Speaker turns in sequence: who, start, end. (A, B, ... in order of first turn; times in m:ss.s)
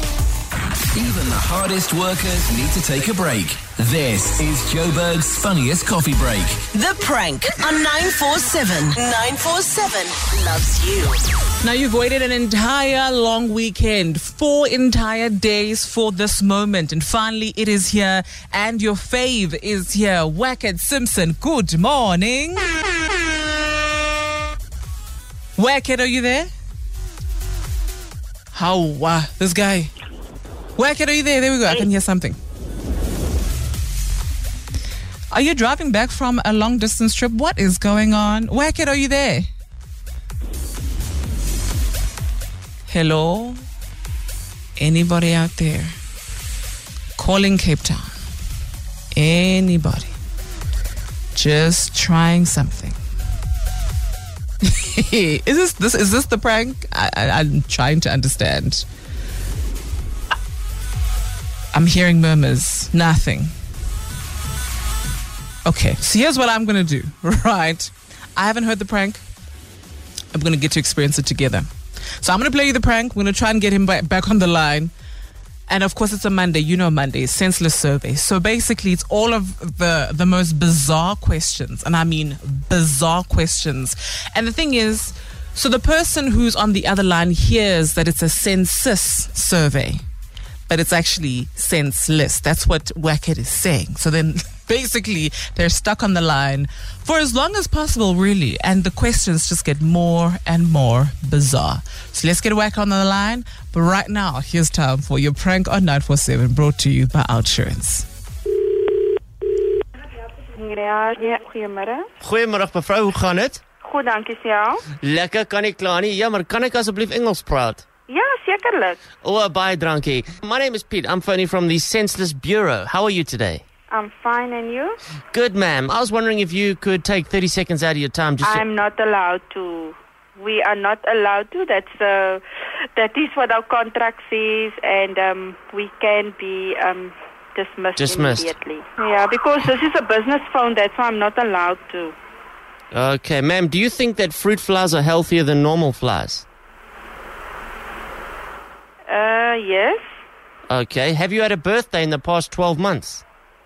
0:01.0-0:06.6 A
0:07.1-0:11.0 B
0:11.6-0:22.7 C
0:25.6-0:26.5 C
0:28.5-0:29.9 C
0:30.8-0:32.4 C
0:35.3-0:39.5 C
0:42.9-0:43.6 C
0:44.8-0:45.9 C
0:47.2-0:48.1 C
0:49.1-0:50.1 C
0:51.3-0:53.0 C
0:54.6-0:58.8 C
1:01.7-1:03.5 C
1:05.6-1:09.2 C
1:10.3-1:14.9 C
1:15.7-1:30.0 C
1:30.7-1:48.1 C
1:50.5-1:52.1 D
1:52.2-1:53.6 E
1:53.8-1:54.8 D
1:55.0-1:57.8 E
1:58.1-1:59.0 D
1:59.2-2:03.6 E
2:03.9-2:05.0 D
2:05.3-2:08.6 E
2:08.4-2:12.4 D
2:13.0-2:22.2 D
2:18.0-2:18.5 E
2:22.9-2:26.4 E
2:29.1-2:30.0 D
2:30.7-2:33.2 E